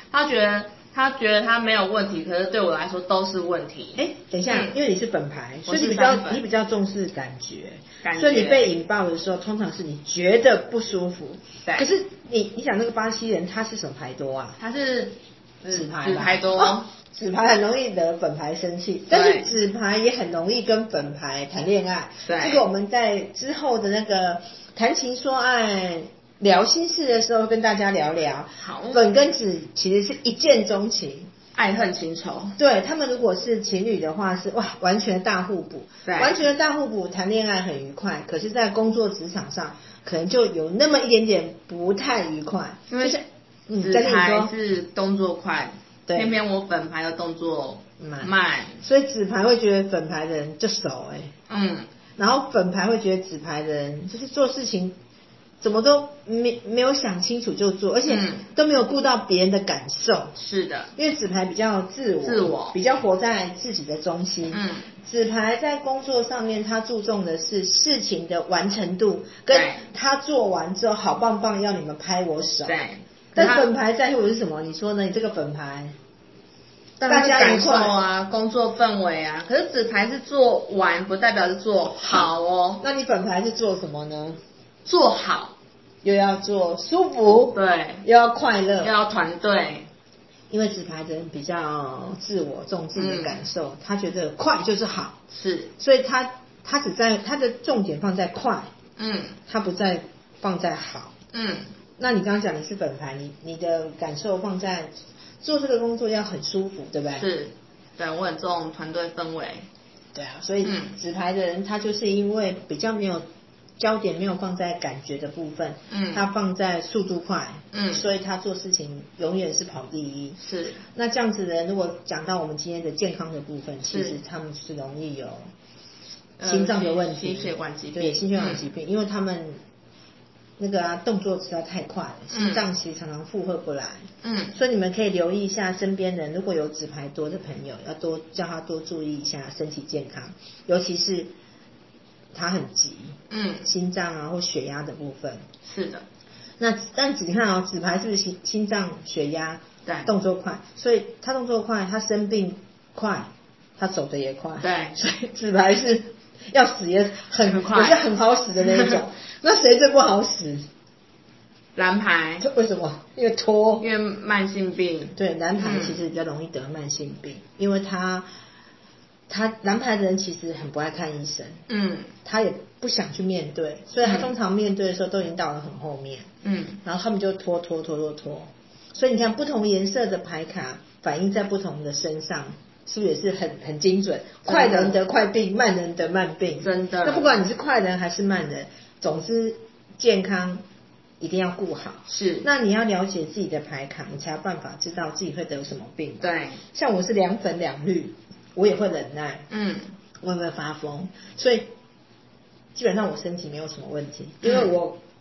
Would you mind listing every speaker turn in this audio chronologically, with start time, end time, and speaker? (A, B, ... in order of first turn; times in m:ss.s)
0:00.1-0:04.7 A
0:04.0-0:14.6 B
0:05.7-0:06.4 A
0:08.0-0:08.7 A
0:14.6-0:16.9 A
0:15.6-0:31.3 B
0:19.1-0:19.5 A
0:22.2-0:22.6 A
0:28.6-0:29.0 A
0:31.6-0:32.6 A
0:32.6-0:44.5 B
0:36.0-0:36.4 A
0:42.9-0:43.2 A
0:43.8-0:48.8 A
0:46.1-0:46.4 B
0:48.0-0:51.3 B
0:51.5-0:51.9 A
0:52.2-0:55.0 B
0:55.6-1:00.3 B
0:58.1-0:58.5 A
1:00.4-1:00.9 A
1:01.0-1:12.8 B
1:02.2-1:02.8 A
1:04.5-1:04.9 A
1:09.5-1:09.9 A
1:12.6-1:13.7 A
1:13.4-1:16.0 B
1:17.0-1:22.8 A
1:17.1-1:18.0 B
1:22.0-1:22.3 B
1:22.8-1:24.4 B
1:24.8-1:25.6 A
1:26.0-1:28.9 B
1:27.5-1:28.0 A
1:28.8-1:29.9 A
1:30.5-1:35.2 B
1:33.0-1:33.4 A
1:35.3-1:35.7 A
1:35.8-1:38.7 B
1:39.0-1:39.4 A
1:39.5-1:41.1 B
1:41.3-1:41.7 A
1:42.0-1:47.3 B
1:47.2-1:49.7 A
1:50.2-1:53.2 B
1:50.6-1:51.0 A
1:53.8-2:00.4 B
1:55.9-1:56.2 A
1:57.7-1:58.0 A
2:00.4-2:00.8 A
2:00.9-2:05.5 B
2:03.9-2:04.2 A
2:06.4-2:08.6 A
2:06.4-2:09.6 B
2:10.6-2:21.3 B
2:12.3-2:12.6 A
2:14.2-2:14.6 A
2:22.3-2:25.5 B
2:23.3-2:23.7 A
2:25.6-2:26.1 A
2:26.6-2:40.7 B
2:34.6-2:35.0 A
2:37.5-2:38.1 A
2:38.6-2:39.0 A
2:41.8-2:42.4 A
2:42.4-2:43.9 B
2:43.8-2:46.0 A
2:45.2-2:48.3 B
2:49.3-2:51.6 B
2:51.7-2:52.1 A
2:52.2-2:56.3 B
2:54.0-2:54.3 A
2:56.4-2:56.8 A
2:56.8-3:10.6 B
3:04.4-3:05.0 A
3:06.6-3:07.4 A
3:11.2-3:19.5 B
3:12.1-3:12.5 A
3:16.2-3:16.6 A
3:19.5-3:20.0 A
3:20.2-3:21.7 B
3:22.8-3:25.0 B
3:24.4-3:24.7 A